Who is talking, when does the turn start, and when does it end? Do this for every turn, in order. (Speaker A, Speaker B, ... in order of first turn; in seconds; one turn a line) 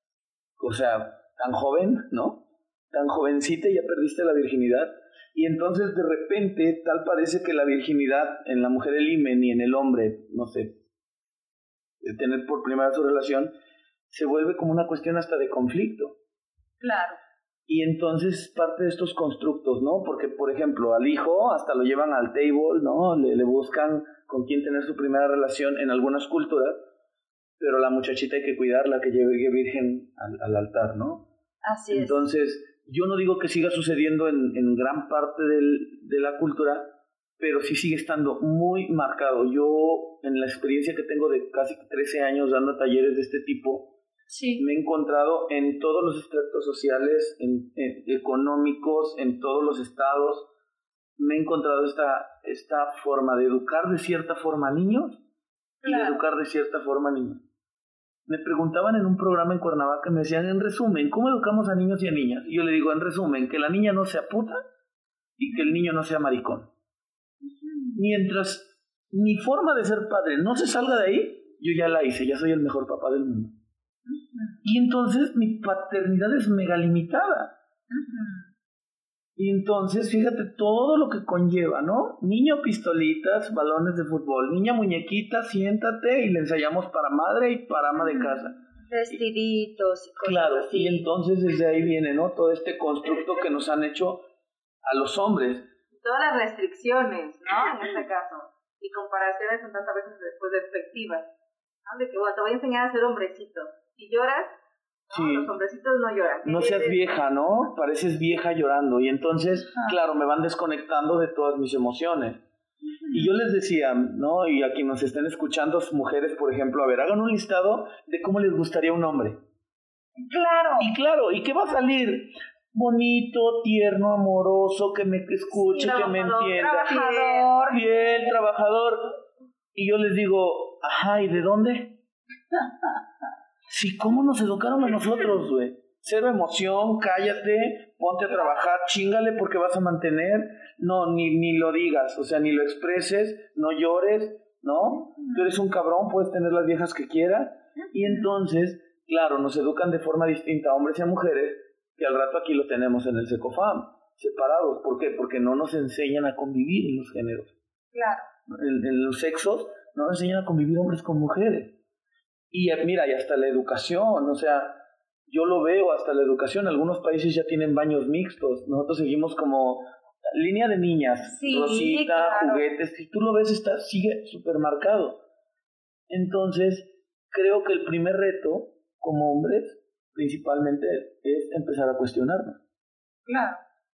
Speaker A: 0.6-10.8
Speaker A: 12.0-13.5
Speaker A: 14.1-16.1
Speaker B: 16.8-17.2
Speaker A: 17.7-26.8
Speaker A: 27.6-31.3
Speaker B: 31.6-32.2
Speaker A: 31.9-43.9
Speaker B: 44.3-44.6
Speaker A: 44.6-50.5
Speaker A: 51.2-55.2
Speaker B: 55.8-56.2
Speaker A: 55.8-57.4
Speaker A: 58.3-64.6
Speaker A: 65.4-66.7
Speaker B: 65.5-65.8
Speaker B: 67.4-68.0
Speaker A: 68.0-73.5
Speaker B: 74.1-74.6
Speaker A: 74.6-77.5
Speaker B: 77.9-78.5
Speaker A: 79.4-89.2
Speaker B: 88.0-91.0
Speaker A: 90.2-94.2
Speaker A: 94.9-95.7
Speaker C: 96.0-101.3
Speaker C: 101.9-104.5
Speaker C: 105.1-107.0
Speaker A: 105.1-105.5
Speaker A: 106.4-112.4
Speaker B: 112.9-113.3
Speaker A: 113.1-119.4
Speaker B: 120.2-120.9
Speaker A: 120.8-126.9
Speaker C: 125.5-127.7
Speaker B: 126.6-128.2
Speaker A: 127.7-129.1
Speaker A: 129.7-132.0
Speaker A: 133.7-157.5
Speaker B: 145.2-145.5
Speaker B: 147.8-148.3
Speaker B: 157.9-158.3
Speaker A: 158.5-161.8
Speaker A: 162.5-175.2
Speaker B: 171.2-172.7
Speaker A: 176.1-182.6
Speaker B: 183.2-183.6